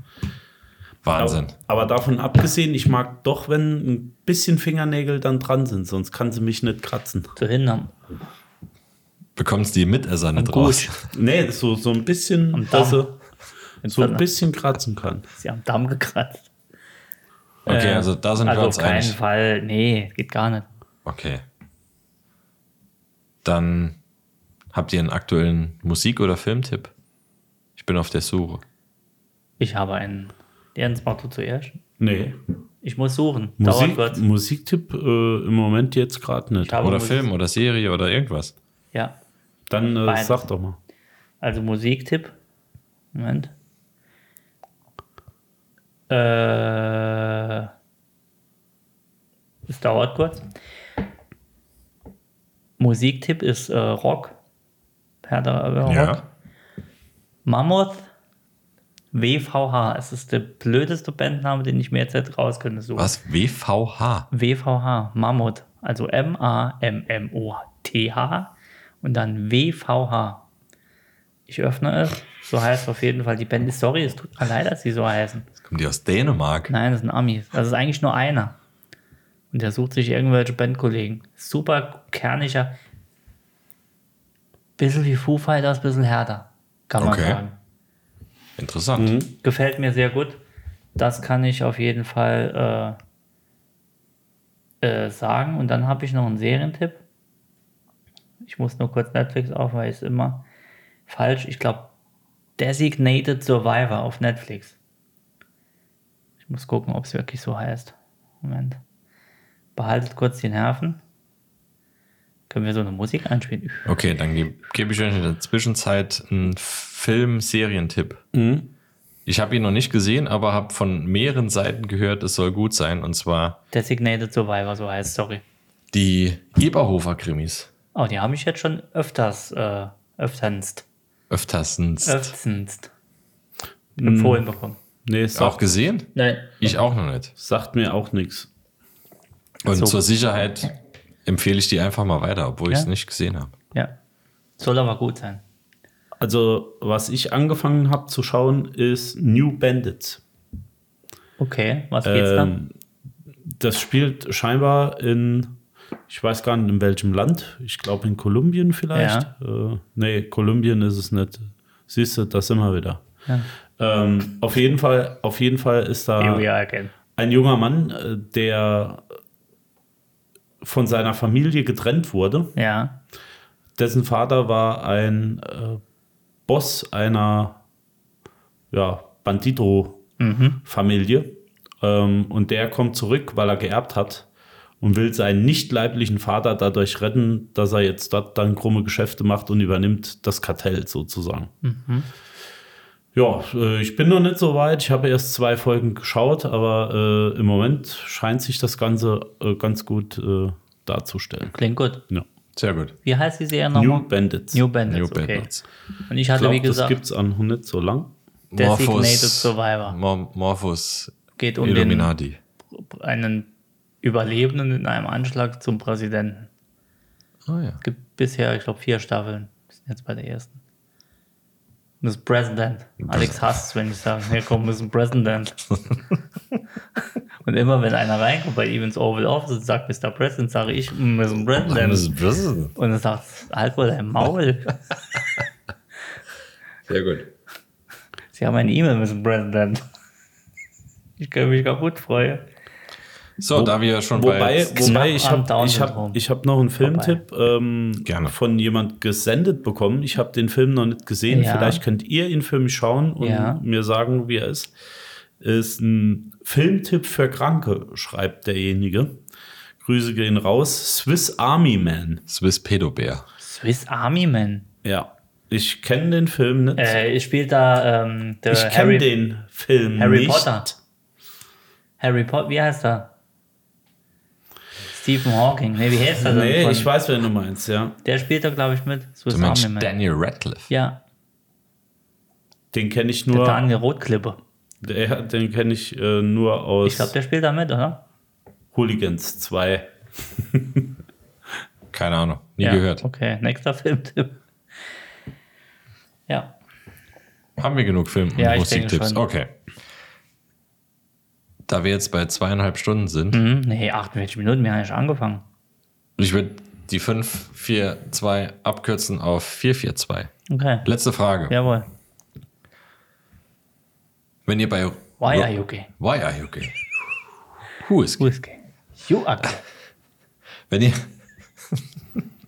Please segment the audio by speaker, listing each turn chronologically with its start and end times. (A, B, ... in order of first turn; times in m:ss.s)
0:01.0-0:01.5 A
0:01.2-0:07.3 B
0:07.4-0:07.9 C
0:09.4-0:10.9 A
0:10.4-0:10.9 C
0:11.1-0:13.2 B
0:12.5-0:13.1 C
0:13.8-0:14.2 C
0:13.9-0:15.2 B
0:15.3-0:16.5 C
0:17.6-0:19.2 A
0:17.6-0:20.7 C
0:21.0-0:21.4 A
0:23.4-0:24.0 A
0:24.7-0:26.9 A
0:27.8-0:28.6 A
0:29.6-0:31.8 C
0:32.0-0:32.4 B
0:32.8-0:34.2 C
0:33.6-0:36.8 B
0:36.6-0:37.3 C
0:36.8-0:38.5 A
0:39.7-0:40.8 B
0:40.0-0:40.4 C
0:41.4-0:42.3 C
0:43.1-0:43.5 C
0:46.1-0:47.7 C
0:49.7-0:50.4 C
0:52.8-0:54.4 C
0:55.2-0:56.2 C
0:55.8-0:56.2 A
0:57.4-0:58.1 C
0:59.1-1:03.1 C
1:03.0-1:04.3 A
1:04.3-1:10.4 C
1:11.5-1:15.5 C
1:15.6-1:16.7 A
1:16.7-1:18.6 C
1:19.5-1:22.8 C
1:24.8-1:27.5 C
1:27.0-1:27.4 A
1:28.6-1:29.2 A
1:29.0-1:29.3 B
1:29.4-1:30.4 C
1:31.0-1:33.0 C
1:34.8-1:37.0 C
1:38.4-1:40.4 C
1:41.1-1:41.9 C
1:42.6-1:44.8 C
1:46.4-1:48.8 C
1:49.8-1:51.0 C
1:52.5-1:53.9 C
1:53.9-1:58.2 A
1:58.3-1:58.7 B
1:59.2-2:03.6 A
2:03.7-2:05.4 C
2:05.9-2:07.7 A
2:07.9-2:10.8 C
2:11.3-2:12.3 A
2:12.0-2:12.9 C
2:14.0-2:14.8 C
2:14.0-2:14.4 B
2:15.0-2:15.6 B
2:15.3-2:17.3 A
2:16.1-2:16.6 C
2:17.4-2:18.5 B
2:19.6-2:20.7 A
2:19.7-2:20.0 C
2:21.2-2:23.5 A
2:24.6-2:25.4 C
2:26.2-2:30.2 B
2:31.4-2:32.5 C
2:32.0-2:32.7 B
2:33.4-2:35.5 B
2:36.1-2:43.0 B
2:38.9-2:39.3 C
2:43.8-2:46.5 B
2:46.2-2:46.9 C
2:47.1-2:49.0 B
2:50.6-2:52.5 B
2:52.6-2:53.0 C
2:53.8-2:55.8 B
2:56.5-2:57.6 B
2:58.7-3:00.1 B
3:00.2-3:00.6 C
3:00.6-3:04.2 B
3:04.8-3:11.5 B
3:11.6-3:12.1 C
3:13.1-3:21.6 B
3:21.5-3:22.0 C
3:22.6-3:22.9 A
3:23.0-3:25.5 C
3:23.7-3:24.6 B
3:24.9-3:25.6 A
3:26.1-3:27.0 C
3:26.3-3:28.1 B
3:28.5-3:32.4 A
3:28.6-3:30.0 C
3:31.4-3:32.1 C
3:32.7-3:33.5 C
3:34.0-3:36.5 C
3:37.4-3:37.8 A
3:37.8-3:40.6 C
3:42.0-3:45.7 C
3:43.0-3:43.4 A
3:47.4-3:52.1 C
3:51.6-3:52.7 A
3:52.8-3:54.8 C
3:56.9-3:57.3 A
3:58.3-3:59.8 C
4:01.2-4:02.4 C
4:03.4-4:05.0 A
4:03.5-4:14.7 B
4:04.8-4:06.2 C
4:06.8-4:07.2 C
4:08.0-4:08.3 A
4:11.3-4:11.8 C
4:13.2-4:13.6 C
4:15.4-4:19.2 B
4:19.8-4:22.2 B
4:22.3-4:23.2 A
4:23.4-4:24.7 C
4:24.8-4:27.0 B
4:26.8-4:29.1 C
4:28.5-4:30.8 B
4:30.0-4:30.7 C
4:32.0-4:33.1 C
4:34.9-4:36.9 C
4:36.2-4:38.0 B
4:38.0-4:39.9 C
4:39.3-4:40.7 A
4:40.7-4:41.0 C
4:42.7-4:43.6 B
4:43.3-4:44.4 C
4:44.8-4:47.1 B
4:46.8-4:48.0 C
4:48.7-4:50.9 B
4:51.9-4:53.0 A
4:52.6-4:54.4 C
4:56.3-4:56.6 C
4:57.6-4:59.5 A
4:58.4-4:59.2 C
5:01.7-5:03.4 A
5:03.3-5:05.4 C
5:06.2-5:10.3 A
5:10.5-5:10.9 C
5:10.8-5:11.5 A
5:11.5-5:11.9 C
5:14.4-5:17.0 A
5:15.2-5:15.9 C
5:17.8-5:18.3 A
5:18.2-5:19.6 C
5:20.7-5:21.1 A
5:21.7-5:22.2 A